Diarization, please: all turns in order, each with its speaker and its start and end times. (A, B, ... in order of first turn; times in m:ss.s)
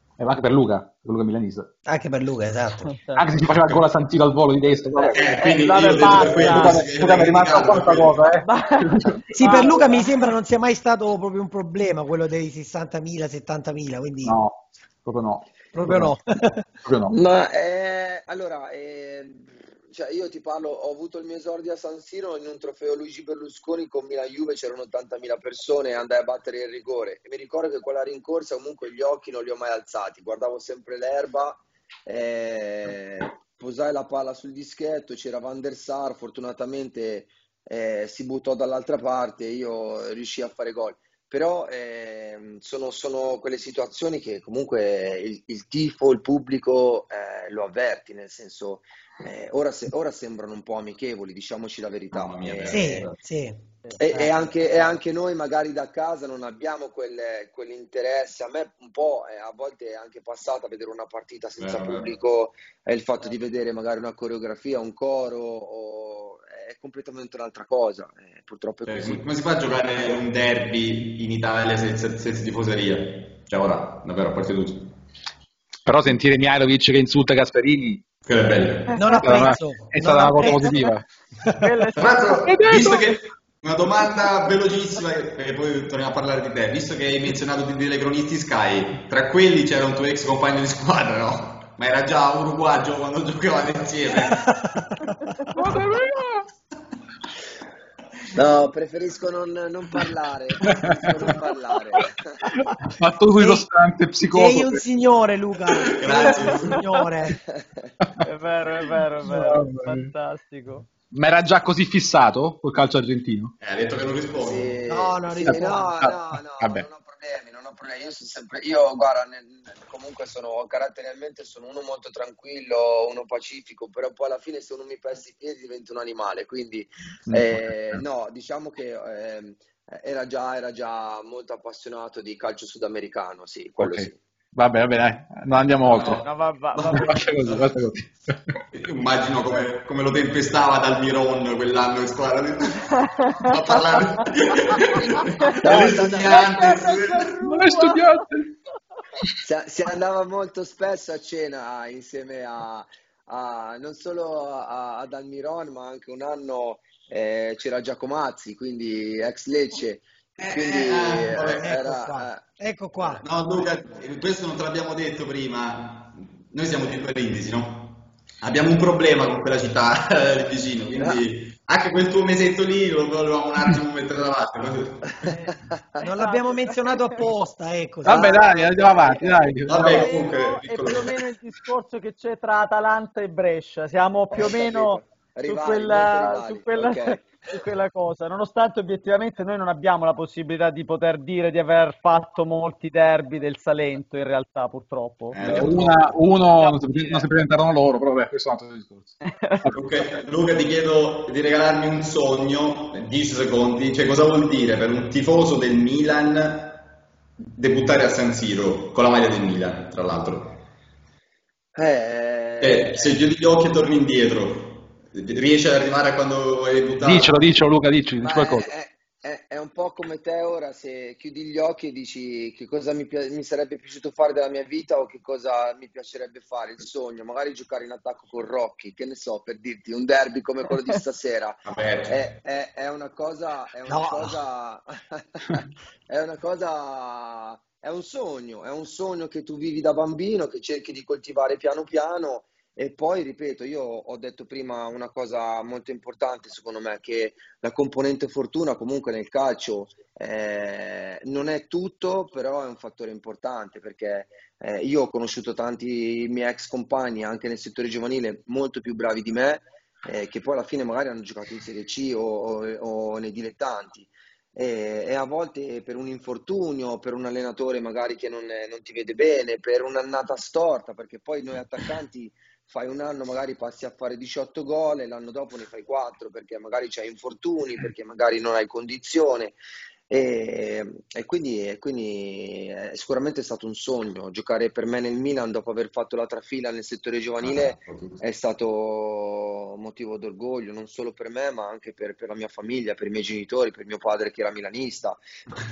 0:00.2-0:01.7 A
0:01.9-0:03.0 B
0:02.8-0:03.3 C
0:03.2-0:09.6 A
0:05.0-0:06.8 C
0:05.1-0:08.2 D
0:08.4-0:10.2 C
0:09.3-0:14.4 B
0:14.2-0:16.1 A
0:15.7-0:16.7 B
0:16.8-0:17.2 A
0:17.1-0:53.1 E
0:52.1-0:53.2 D
0:52.7-0:54.3 B
0:54.0-1:09.2 E
1:01.6-1:02.2 D
1:08.9-1:14.9 D
1:15.9-1:18.0 A
1:18.3-1:19.0 D
1:18.9-1:19.3 C
1:19.0-1:21.6 B
1:19.2-1:21.1 A
1:21.6-1:22.4 C
1:22.0-1:34.6 D
1:22.4-1:23.2 A
1:34.2-1:35.1 B
1:35.5-1:36.5 A
1:38.4-1:42.4 E
1:40.6-1:41.4 A
1:41.9-1:44.8 A
1:43.4-1:43.7 B
1:44.2-1:47.4 B
1:46.0-1:46.8 D
1:46.3-1:47.0 C
1:47.6-1:47.9 E
1:48.2-1:50.9 C
1:49.2-1:50.1 A
1:51.1-1:53.5 A
1:53.6-1:54.8 D
1:54.4-2:14.2 E
1:54.9-1:55.9 B
1:55.4-1:56.9 A
2:07.3-2:08.0 A
2:13.8-2:16.2 A
2:15.9-2:17.6 D
2:16.0-2:17.2 C
2:16.9-2:18.6 A
2:18.7-2:27.7 D
2:23.0-2:24.2 C
2:25.5-2:28.2 C
2:25.6-2:26.4 E
2:25.8-2:26.5 A
2:27.4-2:28.5 A
2:29.4-2:42.4 E
2:40.4-2:41.7 D
2:41.6-2:43.2 B
2:43.2-2:55.3 D
2:56.0-2:58.5 B
2:56.0-2:57.2 C
2:58.0-3:00.1 A
2:58.1-2:59.4 E
2:58.8-3:15.7 C
2:59.7-3:01.2 D
3:04.3-3:07.3 E
3:15.3-3:16.2 D
3:15.4-3:19.8 A
3:16.6-3:17.2 C
3:19.2-3:19.6 C
3:19.7-3:26.8 D
3:27.5-3:30.6 D
3:31.8-3:33.2 E
3:32.6-3:37.4 D
3:37.0-3:38.7 A
3:38.2-4:39.6 E
3:51.7-3:52.2 D
3:53.9-3:54.4 B
4:40.1-4:55.2 E
4:47.4-4:48.2 D